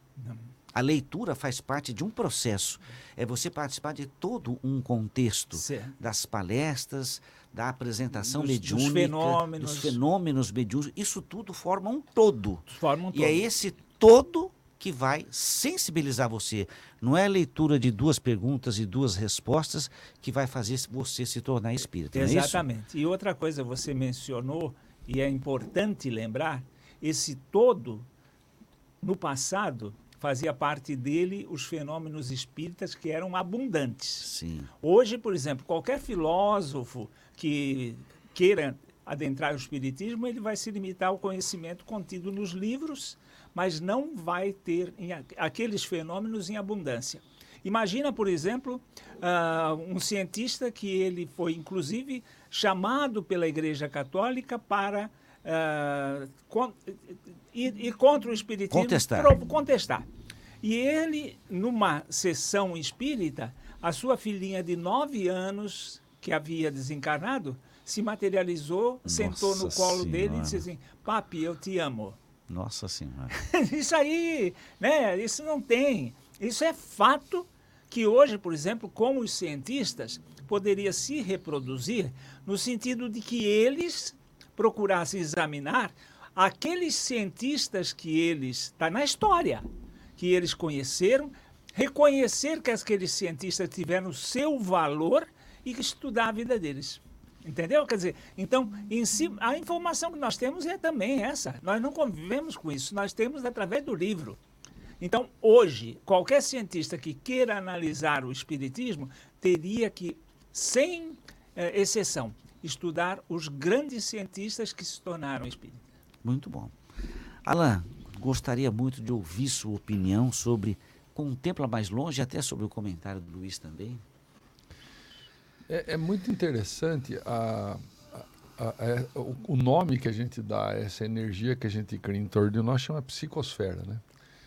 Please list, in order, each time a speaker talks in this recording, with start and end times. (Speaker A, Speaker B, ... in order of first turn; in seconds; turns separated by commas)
Speaker A: 0.2-0.5, Speaker B: 0.7-22.6, Speaker A: 5.5-6.0, Speaker A: 8.3-10.0, Speaker A: 12.7-13.4, Speaker A: 22.1-28.1, Speaker A: 29.0-34.3, Speaker B: 34.2-34.7, Speaker A: 34.8-60.1, Speaker B: 58.7-59.4, Speaker A: 60.6-72.2, Speaker B: 69.1-70.7, Speaker B: 72.5-73.4, Speaker A: 73.4-104.4, Speaker A: 105.0-115.8, Speaker B: 116.2-116.7, Speaker B: 117.5-124.0, Speaker C: 125.7-134.0